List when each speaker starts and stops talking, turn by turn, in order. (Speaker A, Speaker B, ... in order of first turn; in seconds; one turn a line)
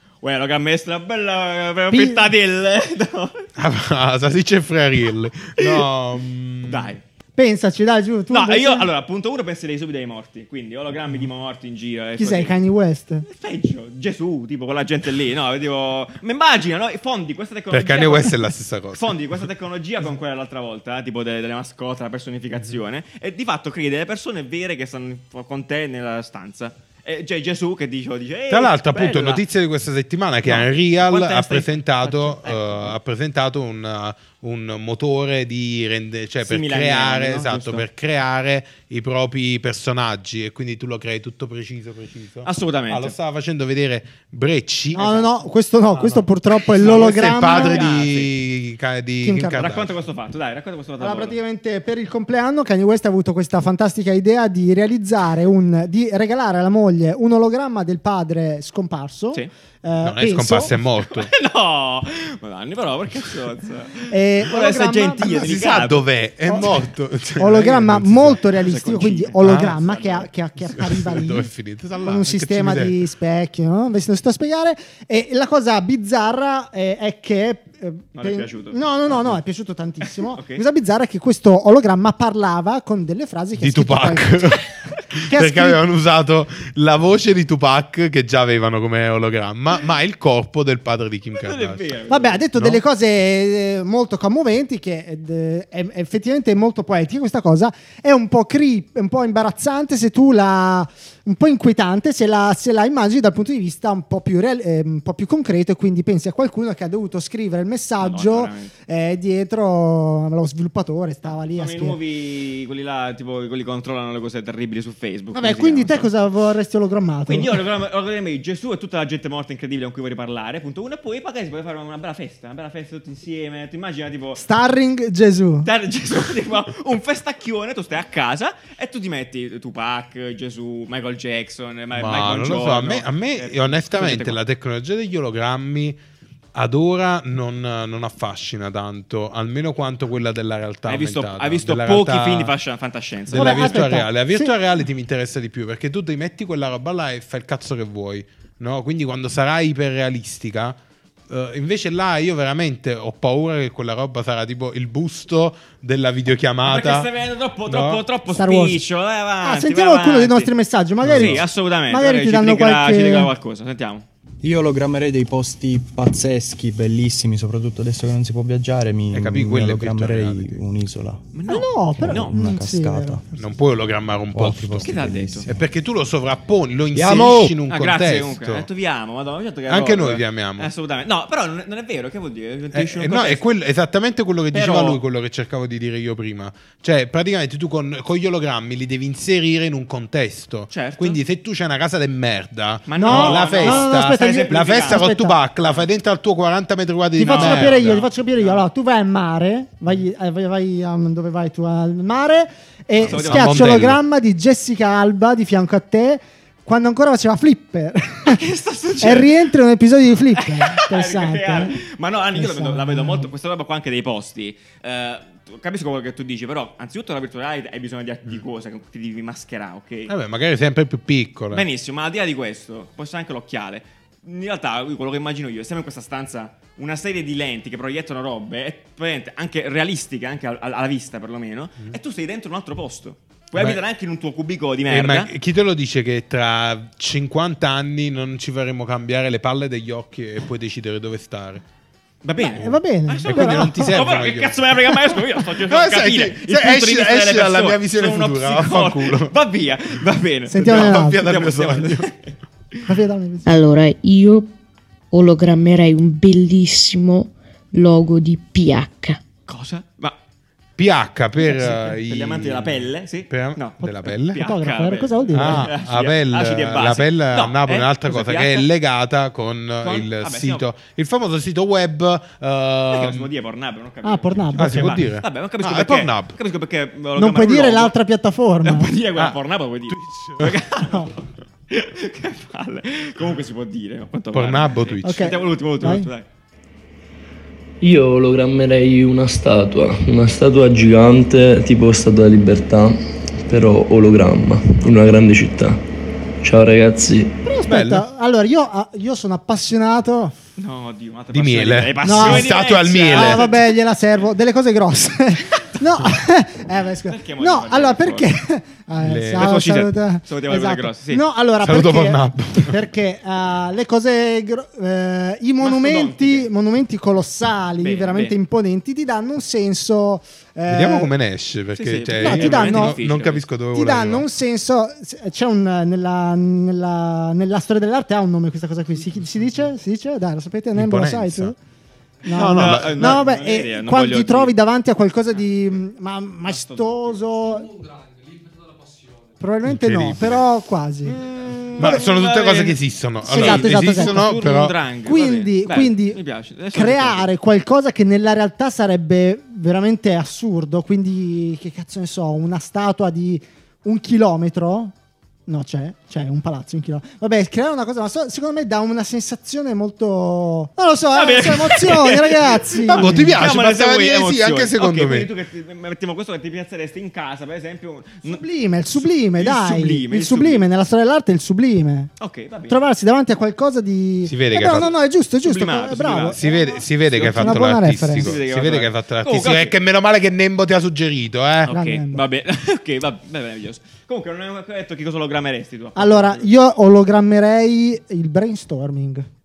Speaker A: 0.2-3.4
Speaker B: 1.9-2.3
Speaker C: 3.6-6.9
Speaker A: 5.6-5.8
Speaker A: 6.7-7.0
Speaker B: 7.4-8.9
Speaker A: 8.3-12.6
Speaker B: 12.2-13.2
Speaker A: 13.2-29.4
Speaker C: 17.7-19.2
Speaker C: 28.5-45.1
Speaker A: 30.4-33.0
Speaker A: 36.4-37.8
Speaker A: 42.4-43.1
Speaker A: 44.9-45.2
Speaker B: 45.0-47.9
Speaker C: 45.9-46.2
Speaker A: 46.8-48.3
Speaker C: 46.8-50.0
Speaker B: 49.2-49.6
Speaker A: 49.5-51.4
Speaker B: 51.0-60.7
Speaker C: 60.0-61.3
Speaker A: 61.0-66.0
Speaker B: 64.1-65.8
Speaker C: 65.2-68.4
Speaker B: 67.4-71.5
Speaker A: 68.5-70.3
Speaker C: 69.4-69.8
Speaker C: 70.6-73.0
Speaker B: 72.0-84.5
Speaker A: 78.1-79.4
Speaker A: 80.0-80.6
Speaker C: 83.6-91.9
Speaker B: 85.2-85.8
Speaker A: 91.4-92.4
Speaker B: 92.1-112.0
Speaker C: 92.5-92.8
Speaker A: 108.0-108.7
Speaker A: 111.5-116.1
Speaker B: 115.3-117.6
Speaker A: 117.3-124.4
Speaker B: 124.4-125.7
Speaker A: 125.6-134.4
Speaker C: 131.9-136.0
Speaker C: 136.5-142.5
Speaker A: 140.9-143.9
Speaker C: 143.3-150.8
Speaker B: 143.3-144.5
Speaker C: 151.3-157.1
Speaker A: 156.6-160.5
Speaker C: 157.7-158.0
Speaker B: 158.3-158.8
Speaker B: 159.4-163.3
Speaker C: 161.0-161.4
Speaker A: 161.0-164.1
Speaker D: 164.4-171.2
Speaker C: 169.1-170.6
Speaker A: 171.3-172.3
Speaker B: 171.5-173.2
Speaker D: 171.9-173.3
Speaker C: 173.4-178.7
Speaker D: 174.3-175.7
Speaker A: 174.8-175.5
Speaker D: 176.9-177.6
Speaker A: 177.7-183.4
Speaker C: 179.7-180.7
Speaker C: 182.7-198.0
Speaker A: 184.5-185.0
Speaker A: 190.7-191.2
Speaker A: 192.9-195.0
Speaker B: 193.0-195.4
Speaker B: 197.2-208.4
Speaker A: 197.2-198.6
Speaker C: 203.0-204.0
Speaker A: 203.0-203.8
Speaker A: 208.2-209.4
Speaker B: 209.0-211.8
Speaker A: 210.4-220.1
Speaker B: 212.3-213.3
Speaker C: 220.1-221.7
Speaker A: 221.5-235.3
Speaker C: 234.9-241.6
Speaker A: 242.2-252.3
Speaker B: 242.4-244.0
Speaker C: 242.6-244.7
Speaker C: 245.6-249.3
Speaker B: 250.5-251.3
Speaker C: 250.6-252.1
Speaker B: 252.8-253.5
Speaker E: 253.4-254.5
Speaker E: 255.1-259.2
Speaker A: 259.5-260.1
Speaker C: 260.8-264.4
Speaker A: 261.4-268.7
Speaker B: 263.8-265.7
Speaker C: 265.3-273.3
Speaker A: 269.8-270.7
Speaker A: 272.9-277.9
Speaker B: 274.0-275.1
Speaker C: 274.6-276.4
Speaker B: 277.2-278.9
Speaker A: 278.6-281.1
Speaker C: 279.1-280.6
Speaker B: 280.8-281.1
Speaker A: 281.7-286.2
Speaker C: 284.3-285.4
Speaker B: 285.0-286.1
Speaker F: 287.8-295.8
Speaker F: 296.4-297.4
Speaker B: 297.4-300.3
Speaker C: 297.6-298.1
Speaker A: 300.6-303.7
Speaker C: 301.3-303.4
Speaker B: 302.0-321.1
Speaker A: 307.1-308.3
Speaker C: 309.0-309.6
Speaker A: 309.4-311.2
Speaker C: 311.6-312.8
Speaker A: 315.6-316.5
Speaker A: 317.8-318.3
Speaker C: 320.7-324.2
Speaker A: 321.7-323.5
Speaker B: 322.2-323.0
Speaker B: 323.7-331.6
Speaker C: 330.7-331.5
Speaker B: 332.2-337.9
Speaker C: 332.3-333.2
Speaker A: 332.3-334.5
Speaker A: 336.4-337.2
Speaker B: 339.4-341.2
Speaker C: 339.6-340.5
Speaker A: 341.1-347.3
Speaker C: 341.8-344.7
Speaker B: 343.2-344.4
Speaker B: 345.1-346.2
Speaker B: 346.7-354.9
Speaker B: 355.5-363.3
Speaker A: 361.1-370.6
Speaker C: 362.9-365.3
Speaker B: 368.2-372.1
Speaker A: 372.2-372.8
Speaker B: 372.7-376.6
Speaker C: 374.2-374.9
Speaker A: 374.5-379.8
Speaker C: 376.3-381.7
Speaker B: 377.2-378.3
Speaker A: 381.6-386.5
Speaker B: 381.7-382.2
Speaker B: 385.9-389.3